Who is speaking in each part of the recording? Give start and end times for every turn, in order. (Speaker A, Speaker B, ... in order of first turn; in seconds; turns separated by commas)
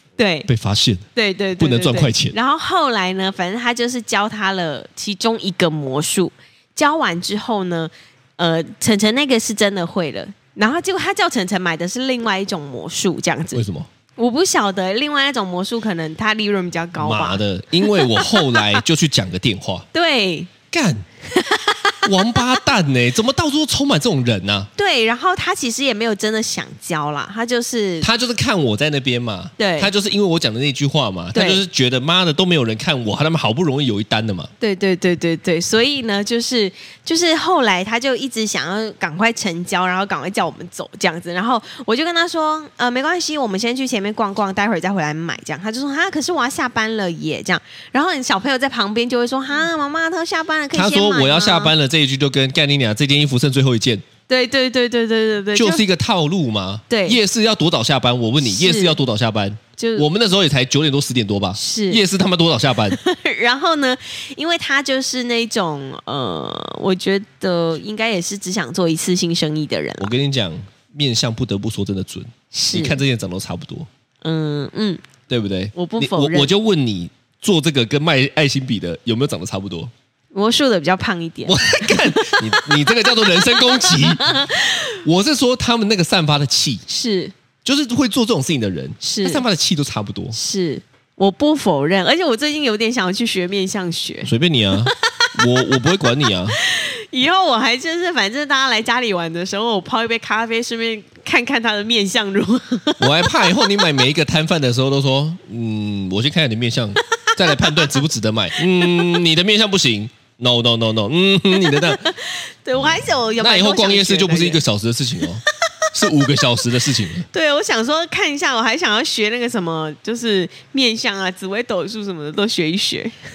Speaker A: 0.2-0.5, Speaker B: 0.5-1.1, Speaker A: 1.1-13.6, Speaker B: 1.6-2.4, Speaker B: 13.5-13.9, Speaker A: 14.2-18.8, Speaker B: 17.0-19.9, Speaker A: 19.9-20.5, Speaker B: 20.7-21.0, Speaker A: 21.3-22.4, Speaker B: 22.0-24.7, Speaker A: 24.8-28.1, Speaker B: 28.0-34.5, Speaker A: 29.6-29.9, Speaker A: 31.3-31.6, Speaker A: 34.6-51.7, Speaker B: 50.7-54.0, Speaker A: 54.3-55.8, Speaker B: 55.5-63.0, Speaker A: 56.9-57.2, Speaker A: 58.4-59.0, Speaker A: 59.8-60.0, Speaker A: 61.5-62.0, Speaker A: 62.9-70.1, Speaker B: 70.0-73.9, Speaker A: 72.5-73.0, Speaker A: 74.2-75.0, Speaker B: 75.3-79.9, Speaker A: 75.7-76.5, Speaker A: 80.3-84.9, Speaker B: 81.4-86.8, Speaker A: 86.9-87.3, Speaker B: 87.6-90.3, Speaker A: 89.0-89.4, Speaker A: 90.3-94.3, Speaker B: 94.2-96.6, Speaker A: 94.8-95.6, Speaker A: 96.5-103.8, Speaker B: 103.0-112.1, Speaker A: 107.2-108.0, Speaker A: 108.6-109.0, Speaker A: 111.5-114.6, Speaker B: 112.8-117.3, Speaker A: 117.3-123.1